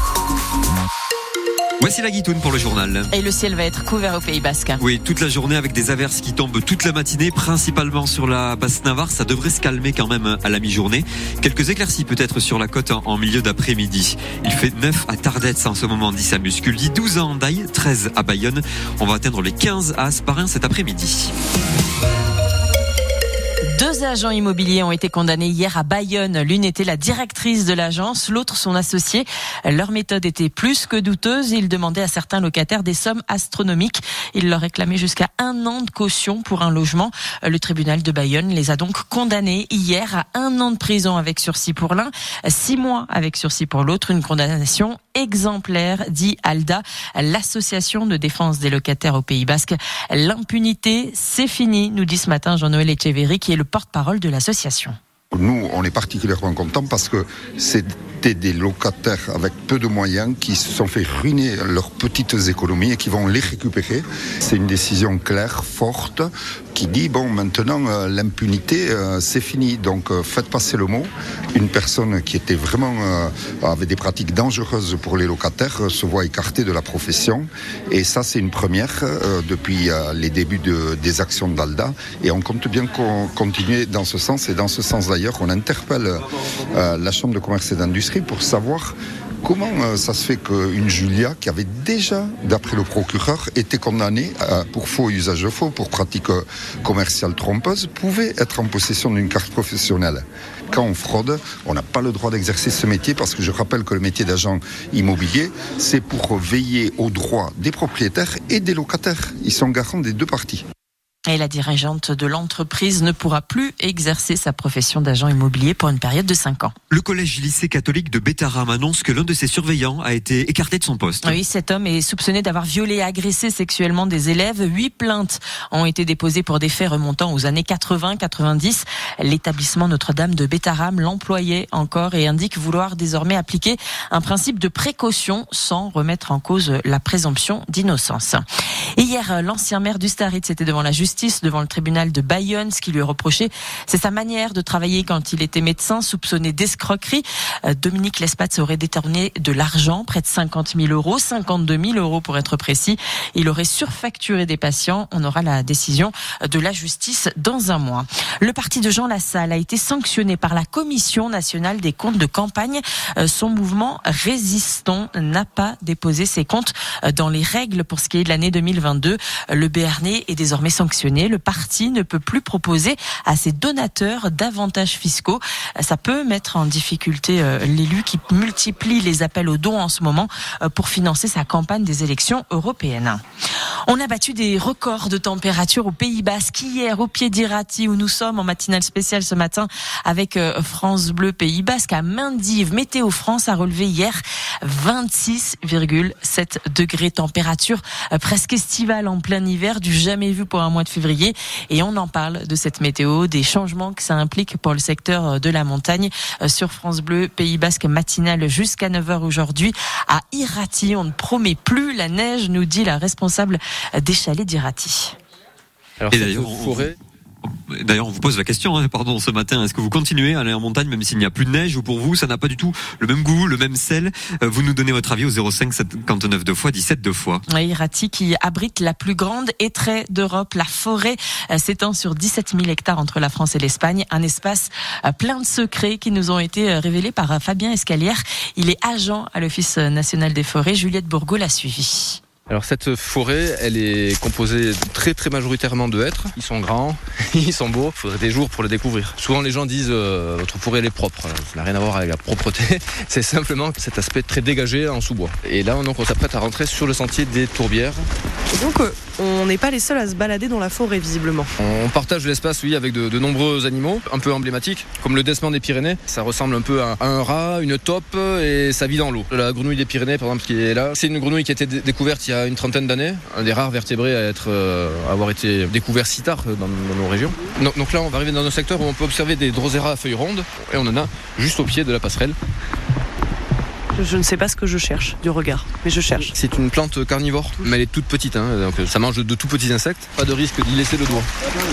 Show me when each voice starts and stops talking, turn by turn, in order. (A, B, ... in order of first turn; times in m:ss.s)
0:01.8-0:03.1 A
0:03.1-0:04.8 B
0:04.8-0:21.3 A
0:23.6-0:55.0 B
0:55.3-1:50.6 C
1:51.3-1:56.7 B
1:56.9-2:01.4 A
2:01.2-2:18.4 B
2:19.0-3:03.2 B
3:03.9-3:35.2 B
3:36.0-3:36.9 D
3:36.1-3:36.9 A
3:37.4-3:47.4 A
3:47.5-4:02.2 B
4:02.5-4:18.1 D
4:18.5-4:21.5 E
4:21.6-4:42.4 D
4:43.9-4:46.3 E
4:46.2-4:51.3 D